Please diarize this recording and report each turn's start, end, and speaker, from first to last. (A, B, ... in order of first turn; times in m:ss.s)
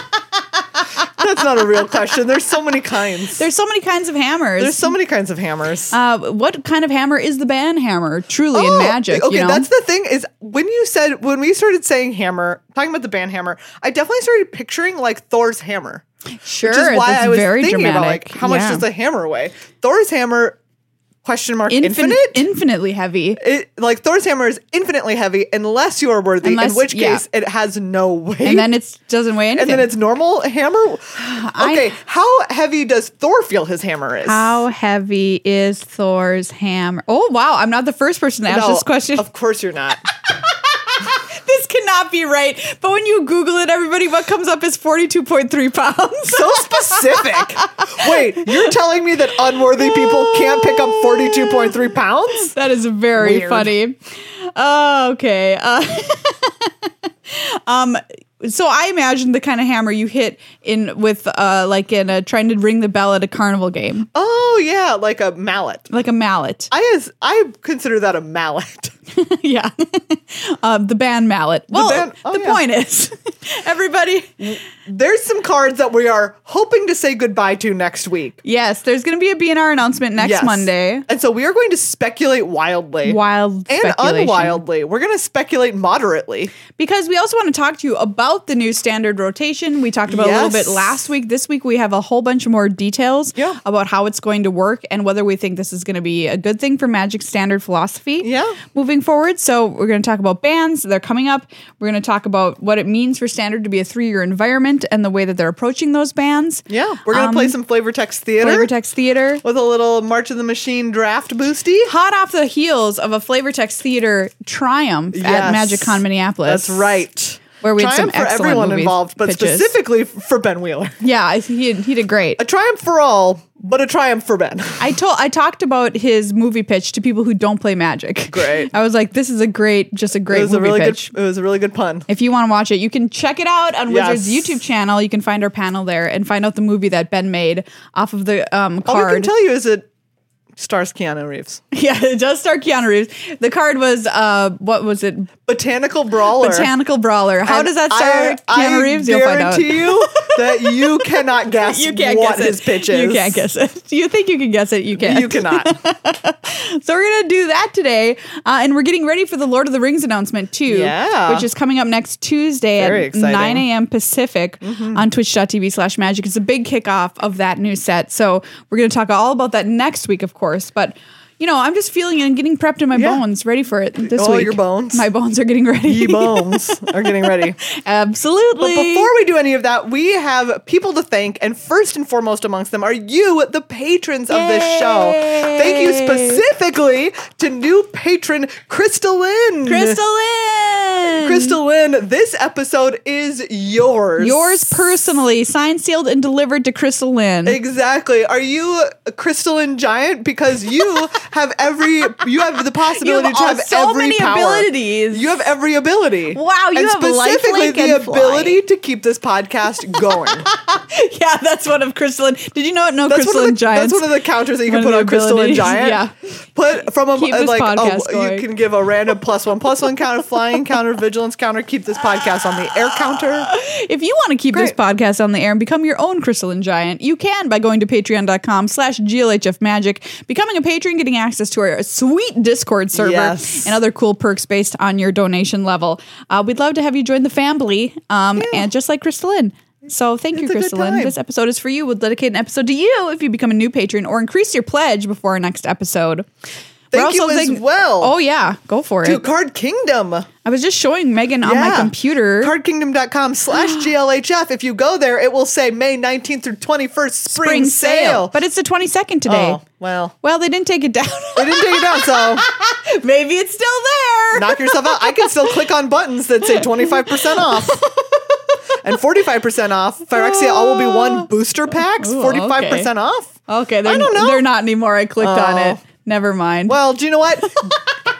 0:01.0-0:03.4 A
0:03.4-0:04.9 B
0:04.6-0:05.9 A
0:05.9-0:09.7 B
0:08.5-0:16.0 A
0:16.4-0:18.8 B
0:16.6-0:20.6 A
0:21.2-0:22.4 A
0:21.7-0:23.4 B
0:23.4-0:28.7 A
0:26.4-0:27.2 B
0:28.4-0:29.9 B
0:29.5-0:34.5 A
0:31.2-0:31.9 B
0:34.2-0:39.2 B
0:38.5-0:40.0 A
0:40.3-0:48.7 B
0:46.3-0:52.5 A
0:49.8-0:51.7 B
0:52.5-0:54.0 B
0:53.2-0:53.7 A
0:54.5-1:04.1 B
1:04.1-1:05.9 A
1:05.9-1:06.7 B
1:06.7-1:08.9 A
1:09.1-1:14.4 B
1:11.7-1:12.6 A
1:14.4-1:18.4 A
1:18.4-1:21.0 B
1:20.2-1:26.5 A
1:23.0-1:24.6 B
1:26.8-1:47.6 B
1:30.1-1:31.0 A
1:38.2-1:38.6 A
1:46.7-1:48.7 A
1:48.4-1:49.4 B
1:49.4-1:51.9 A
1:51.8-1:56.9 B
1:55.1-2:01.0 A
1:57.6-1:59.7 B
2:01.0-2:02.4 B
2:02.4-2:04.8 A
2:04.8-2:11.1 B
2:08.3-2:08.7 A
2:10.3-2:12.1 A
2:12.1-2:19.3 B
2:13.9-2:14.6 A
2:18.8-2:19.8 A
2:20.6-2:21.6 A
2:21.7-2:25.3 B
2:25.4-2:26.7 A
2:26.4-2:30.8 B
2:27.5-2:33.4 A
2:31.6-2:59.1 B
2:35.0-2:35.7 A
2:40.7-2:41.5 A
2:42.8-2:43.6 A
2:44.6-2:45.0 A
2:52.9-2:53.2 A
2:54.1-2:55.0 A
2:55.9-2:57.6 A
2:58.6-3:10.0 A
3:04.3-3:06.4 B
3:09.6-3:11.6 B
3:11.2-3:14.7 A
3:14.2-3:17.6 B
3:17.4-3:30.5 A
3:22.9-3:25.5 B
3:26.3-3:28.6 B
3:30.1-3:36.1 B
3:33.1-3:36.0 A
3:36.5-3:43.5 A
3:37.1-3:38.4 B
3:43.1-4:06.3 B
3:52.9-3:53.7 A
3:58.4-3:58.7 A
4:00.3-4:01.1 A
4:06.9-4:08.1 A
4:06.9-4:09.2 B
4:09.0-4:10.3 A
4:10.4-4:12.5 B
4:11.4-4:18.4 A
4:13.5-4:13.9 B
4:17.3-4:19.6 B
4:19.2-4:20.1 A
4:20.2-4:25.6 B
4:21.4-4:22.4 A
4:24.3-4:27.8 A
4:26.4-4:28.4 B
4:28.8-4:34.4 A
4:30.1-4:31.3 B
4:32.0-4:32.9 B
4:33.5-4:36.8 B
4:35.2-4:35.8 A
4:36.7-4:37.7 A
4:37.4-4:37.8 B